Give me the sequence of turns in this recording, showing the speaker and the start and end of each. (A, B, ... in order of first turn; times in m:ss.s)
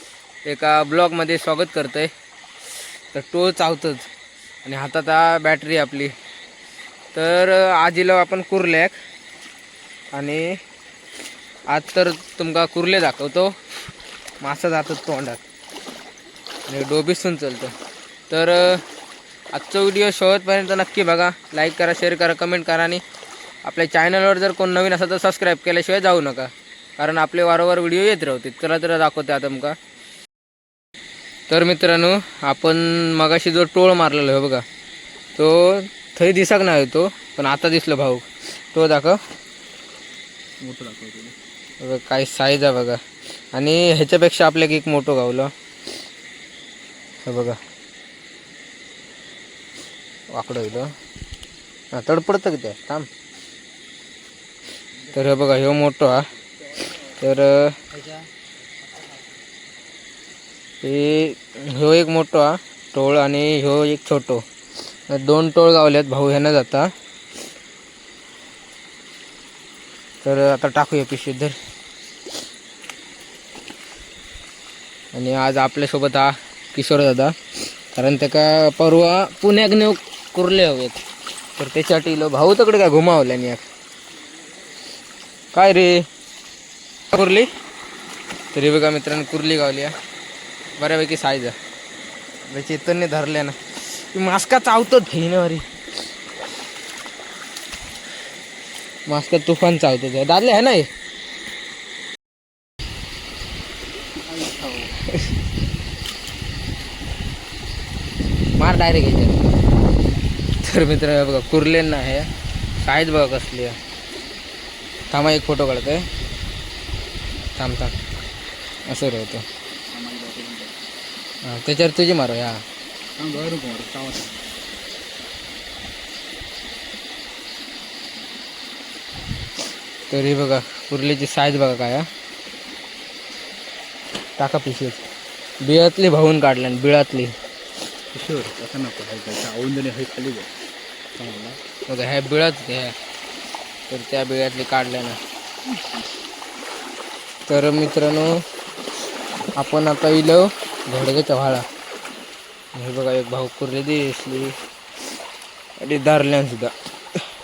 0:00.4-0:02.1 A
0:03.1-0:04.1 A
0:04.6-0:06.1 A
0:07.1-0:08.9 A
0:10.1-0:10.6 A
0:11.7-0:13.5 A
0:14.4-0:15.4 A
0:16.7-0:17.7 A
0:18.3-0:18.8 A
0:19.5-0:23.0 A
0:23.6-0:29.8 A
0:31.5-0:34.6 A
0:35.4-0:39.2 A
0:40.6-0:41.4 B
0:41.8-0:43.0 A
0:43.5-0:45.5 A
0:47.2-0:47.6 A
0:50.3-0:50.9 A
0:51.9-0:53.1 A
0:55.1-0:56.3 A
0:57.1-0:57.8 A
0:57.9-0:58.3 B
0:58.9-0:59.3 B
1:00.8-1:04.4 A
1:05.1-1:06.9 A
1:10.2-1:11.6 A
1:15.1-1:17.4 A
1:17.9-1:21.0 A
1:21.6-1:23.6 A
1:25.5-1:26.0 A
1:27.1-1:27.5 A
1:28.5-1:29.9 A
1:30.8-1:31.5 A
1:32.5-1:35.6 A
1:39.1-1:40.9 A
1:44.2-1:45.0 B
1:48.6-1:49.5 A
1:50.6-1:52.3 A
1:52.8-1:53.8 A
1:55.1-1:56.1 A
1:57.5-1:57.9 A
1:58.9-1:59.4 A
1:59.9-2:00.7 B
2:01.4-2:02.6 A
2:03.2-2:04.4 B
2:10.1-2:12.1 A
2:14.4-2:15.0 A
2:15.6-2:17.3 A
2:18.1-2:20.5 B
2:21.2-2:21.6 B
2:21.9-2:22.9 A
2:23.9-2:25.2 A
2:27.5-2:28.4 A
2:29.6-2:31.6 A
2:32.7-2:34.5 A
2:35.8-2:36.7 A